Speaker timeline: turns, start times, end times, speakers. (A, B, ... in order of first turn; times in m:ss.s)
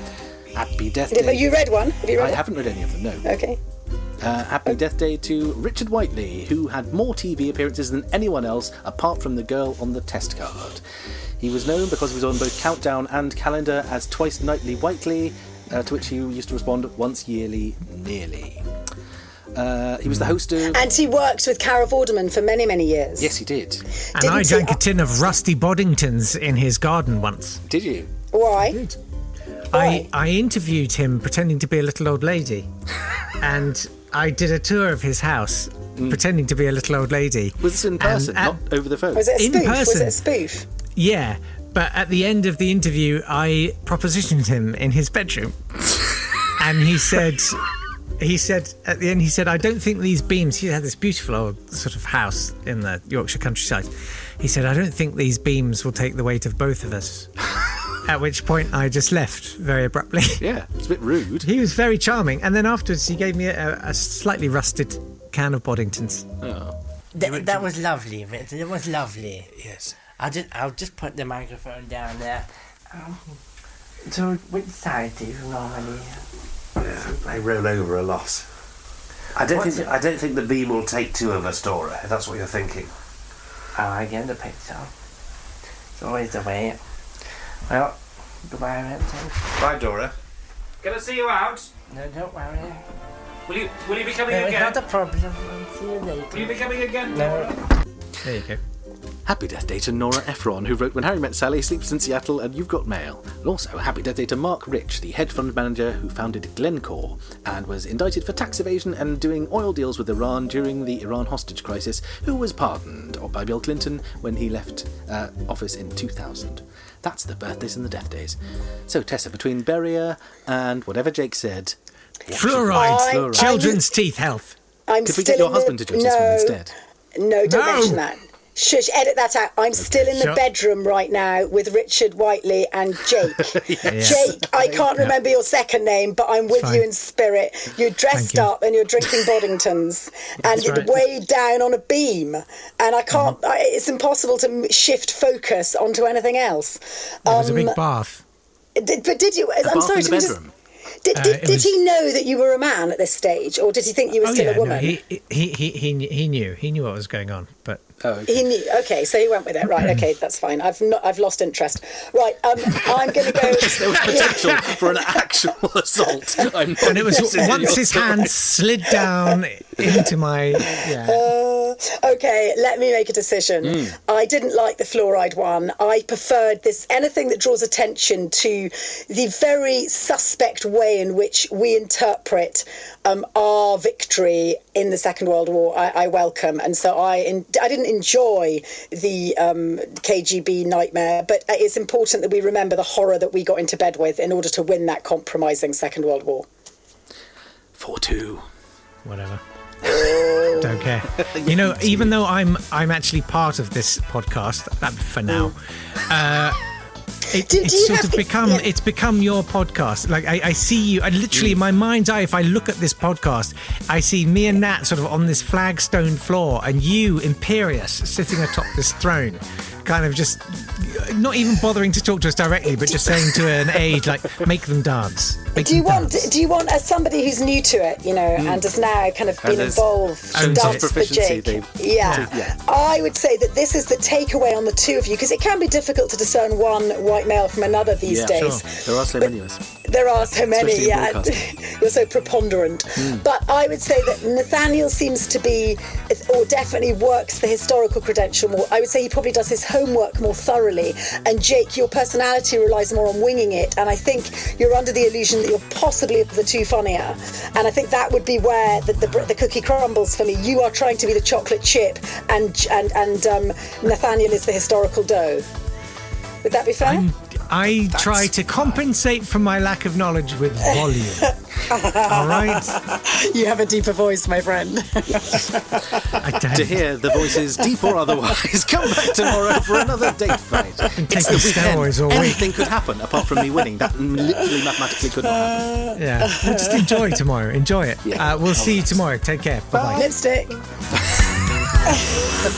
0:00.5-0:01.5 A
0:01.1-0:02.4 B
0:02.2-0:03.2 A
0:03.2-0:03.6 B
0:04.2-0:10.8 A
0:11.4-0:18.6 A
0:19.5-0:20.8 A
0:20.6-0:23.3 B
0:23.2-0:23.8 A
0:24.2-0:27.6 C
0:24.2-0:24.8 B
0:27.7-0:28.1 A
0:28.3-0:28.8 B
0:28.6-0:29.0 C
0:29.7-0:32.7 C
0:29.7-0:30.1 B
0:33.4-0:38.6 C
0:36.0-0:36.2 A
0:37.6-0:39.3 A
0:39.1-0:40.7 B
0:39.3-0:40.2 C
0:40.9-0:45.6 C
0:46.6-0:47.6 C
0:48.2-0:57.3 C
0:58.0-1:00.4 C
1:00.4-1:01.5 A
1:01.4-1:06.3 C
1:06.4-1:07.7 A
1:07.1-1:09.5 D
1:09.5-1:10.0 A
1:10.2-1:13.4 D
1:14.0-1:16.2 D
1:16.8-1:18.4 E
1:16.8-1:17.4 D
1:19.4-1:22.9 E
1:19.5-1:19.9 D
1:23.7-1:24.9 D
1:26.0-1:26.8 D
1:27.7-1:29.6 D
1:29.6-1:30.1 E
1:30.8-1:31.7 F
1:31.9-1:32.8 D
1:33.5-1:34.6 F
1:34.1-1:34.7 E
1:34.2-1:37.6 D
1:36.5-1:37.4 F
1:38.2-1:38.6 C
1:39.2-2:01.8 A
2:02.3-2:03.7 A
2:02.3-2:04.6 C
2:02.7-2:03.8 B
2:04.9-2:06.6 B
2:05.0-2:06.7 A
2:07.2-2:27.8 B
2:07.4-2:08.0 C
2:09.8-2:10.2 A
2:13.4-2:14.7 A
2:13.9-2:14.3 C
2:16.5-2:16.8 C
2:18.1-2:18.5 C
2:20.4-2:20.9 C
2:23.1-2:23.4 C
2:27.2-2:28.2 C
2:28.8-2:30.4 B
2:29.6-2:30.5 A
2:31.0-2:34.9 B
2:31.1-2:31.7 C
2:34.2-2:37.8 C
2:38.0-2:38.4 A
2:38.3-2:45.2 B
2:43.3-2:48.3 A
2:46.8-2:51.2 C
2:47.3-2:47.7 B
2:49.0-2:49.4 B
2:50.6-3:16.5 B
2:53.6-2:54.0 A
3:17.8-3:18.4 A
3:19.0-3:19.4 C
3:20.0-3:22.1 A
3:20.1-3:20.5 B
3:20.5-3:26.6 C
3:27.2-3:46.3 C
3:27.4-3:28.7 B
3:45.5-3:59.3 B
3:48.4-3:48.7 A
3:49.4-3:52.6 A
3:50.3-3:50.9 C
3:52.0-3:52.3 C
3:58.0-3:59.6 A
3:58.3-3:58.6 C
3:59.8-4:25.5 B
4:00.3-4:01.5 A
4:03.0-4:03.2 A
4:26.4-4:27.1 B
4:26.8-4:31.3 C
4:30.7-4:36.2 B
4:32.0-4:32.8 C
4:36.2-4:36.8 C
4:36.5-4:45.8 A
4:37.1-4:37.4 B
4:38.9-4:40.1 B
4:41.0-4:42.4 C
4:41.0-4:41.8 B
4:44.2-4:44.6 B
4:45.4-4:47.1 B
4:45.9-4:50.1 C
4:48.0-4:49.0 A
4:49.7-4:50.6 B